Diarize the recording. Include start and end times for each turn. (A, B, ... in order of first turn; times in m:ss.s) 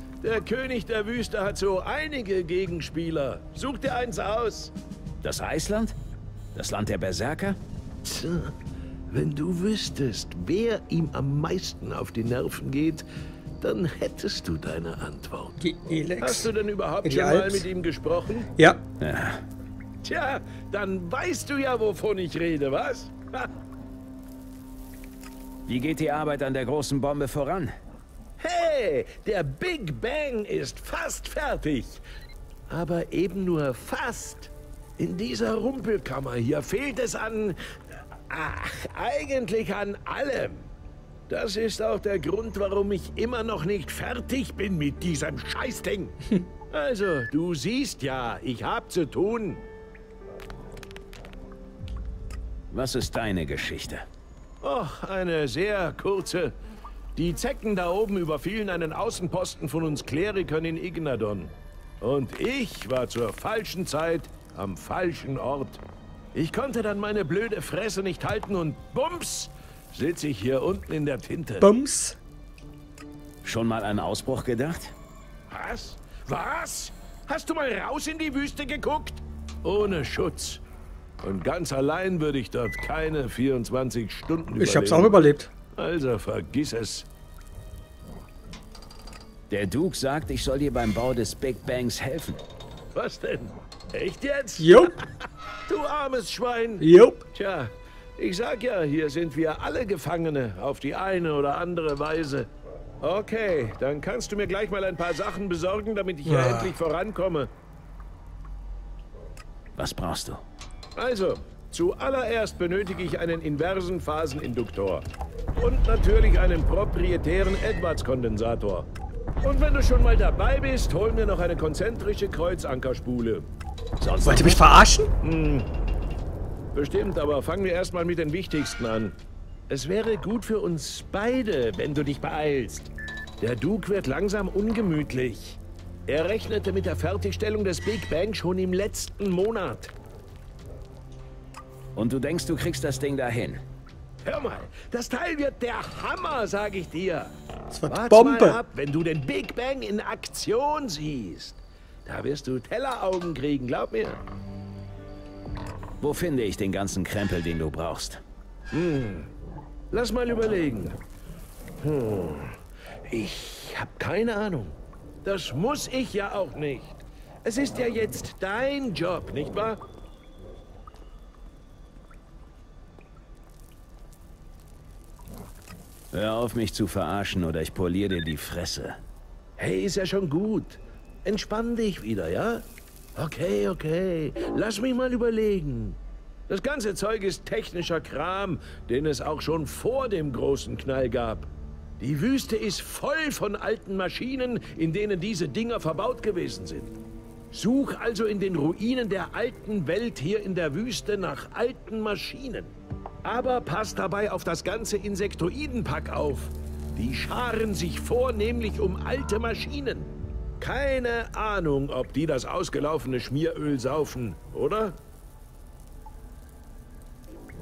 0:00.2-0:04.7 A
0:05.2-0:05.9 B
0:06.5-0:07.6 B
0:08.0-0:08.5 A
0:09.1-0:13.0 A
0:13.6-0:15.6 A
0:15.6-0:16.5 C
0:16.2-0:18.5 A
0:17.0-0:17.7 C
0:19.0-0:19.4 B
0:20.0-0:23.5 A
0:25.7-0:27.7 B
0:28.4-0:32.0 A
0:32.7-0:37.6 A
0:38.3-0:40.7 A
0:41.3-0:46.2 A
0:46.7-0:49.6 A
0:52.7-0:54.0 B
0:54.6-0:56.5 A
0:57.2-1:05.8 A
1:06.3-1:11.7 A
1:11.6-1:12.2 C
1:13.4-1:14.9 B
1:15.5-1:20.6 A
1:21.2-1:25.2 A
1:24.6-1:25.5 C
1:25.8-1:27.0 A
1:29.5-1:32.4 B
1:32.9-1:34.9 A
1:34.6-1:34.9 C
1:35.7-1:42.5 A
1:36.8-1:37.2 C
1:43.0-1:47.5 A
1:46.2-1:46.7 C
1:49.8-1:50.4 B
1:51.0-1:55.0 A
1:55.6-1:58.9 A
1:59.4-2:03.5 A
2:04.0-2:04.6 B
2:04.2-2:05.1 C
2:05.2-2:05.7 A
2:06.7-2:09.1 A
2:09.7-2:12.9 A
2:13.4-2:19.9 A
2:22.0-2:23.6 B
2:24.2-2:27.3 A
2:27.7-2:28.6 C
2:27.9-2:34.2 A
2:36.0-2:38.2 B
2:38.7-2:39.3 A
2:39.9-2:41.0 A
2:41.8-2:42.6 A
2:43.1-2:49.8 A
2:56.1-2:59.0 B
2:59.6-3:02.6 A
3:03.2-3:06.0 A
3:06.5-3:11.5 A
3:12.0-3:16.9 A
3:17.5-3:22.7 A
3:23.2-3:35.0 A